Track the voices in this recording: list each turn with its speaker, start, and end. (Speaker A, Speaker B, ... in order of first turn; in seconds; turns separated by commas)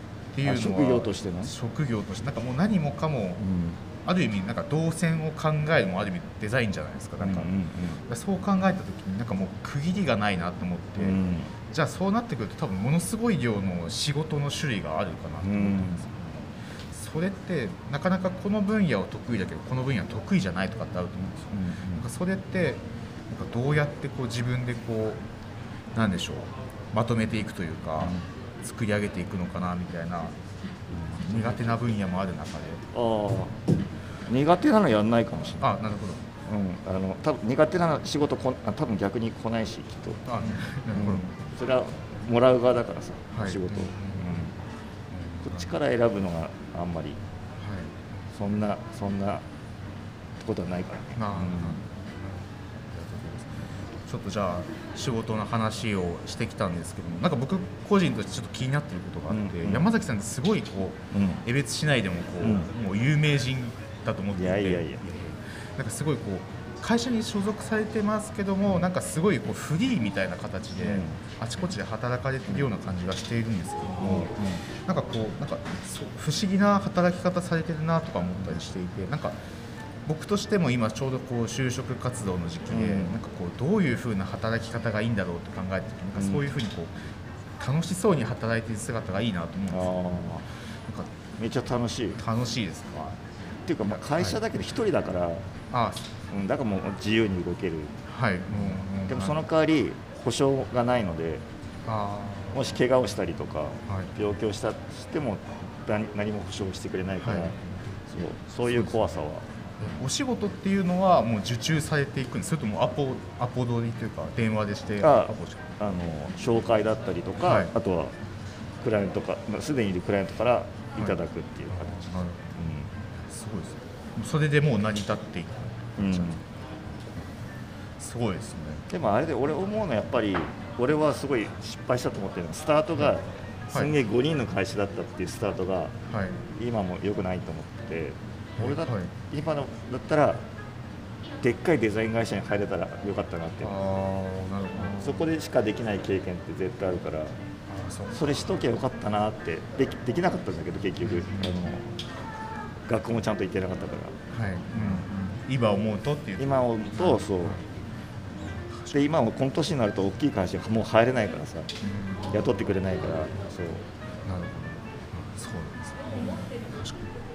Speaker A: 0.3-3.5, Speaker B: 0.4-1.5, Speaker B: 3.4-3.8, Speaker A: 4.0-7.5, Speaker B: 7.2-8.0, Speaker A: 8.1-11.2, Speaker B: 11.0-11.5, Speaker A: 11.7-25.2, Speaker B: 15.4-16.0, Speaker B: 21.5-22.0, Speaker A: 25.9-30.3, Speaker B: 30.9-31.8, Speaker A: 31.1-32.8, Speaker B: 32.9-33.6, Speaker B: 34.3-35.7, Speaker A: 35.6-36.3, Speaker B: 36.5-44.5, Speaker A: 40.2-41.3, Speaker A: 43.3-44.4, Speaker A: 45.1-45.7, Speaker B: 45.4-47.2, Speaker A: 47.6-48.0, Speaker B: 48.3-49.4, Speaker B: 50.4-51.8, Speaker A: 51.1-79.3, Speaker B: 59.3-59.8, Speaker B: 61.1-61.4, Speaker B: 62.4-62.7, Speaker B: 64.4-65.0, Speaker B: 70.8-71.2, Speaker B: 74.0-74.6, Speaker A: 80.0-87.1, Speaker B: 82.7-83.2, Speaker B: 86.2-86.5, Speaker A: 87.6-90.2, Speaker B: 89.7-90.4, Speaker B: 91.4-92.2, Speaker A: 92.2-93.2, Speaker B: 93.7-95.4, Speaker A: 93.9-94.4, Speaker A: 95.7-96.0, Speaker B: 96.3-97.9, Speaker A: 98.1-99.4, Speaker B: 98.5-101.4, Speaker A: 101.8-102.7, Speaker B: 102.5-107.5, Speaker A: 103.9-104.1, Speaker A: 107.2-107.5, Speaker B: 108.1-109.4, Speaker A: 108.7-109.1, Speaker A: 109.8-115.6, Speaker B: 115.0-118.1, Speaker A: 117.4-117.7, Speaker B: 118.8-122.0, Speaker A: 121.7-126.4, Speaker B: 122.6-122.9, Speaker B: 126.0-126.4, Speaker A: 128.0-128.8, Speaker B: 128.9-135.9, Speaker A: 136.1-136.4, Speaker B: 136.5-140.4, Speaker A: 138.6-139.1, Speaker B: 141.4-143.7, Speaker A: 143.6-145.2, Speaker B: 144.8-147.3, Speaker A: 147.7-148.6, Speaker B: 148.1-151.8, Speaker A: 151.0-151.7, Speaker B: 152.9-154.2, Speaker A: 154.3-157.6, Speaker B: 154.8-155.1, Speaker B: 156.4-157.6, Speaker A: 158.4-159.0, Speaker B: 158.9-161.7, Speaker A: 161.8-162.3, Speaker B: 162.3-163.8, Speaker A: 164.2-167.1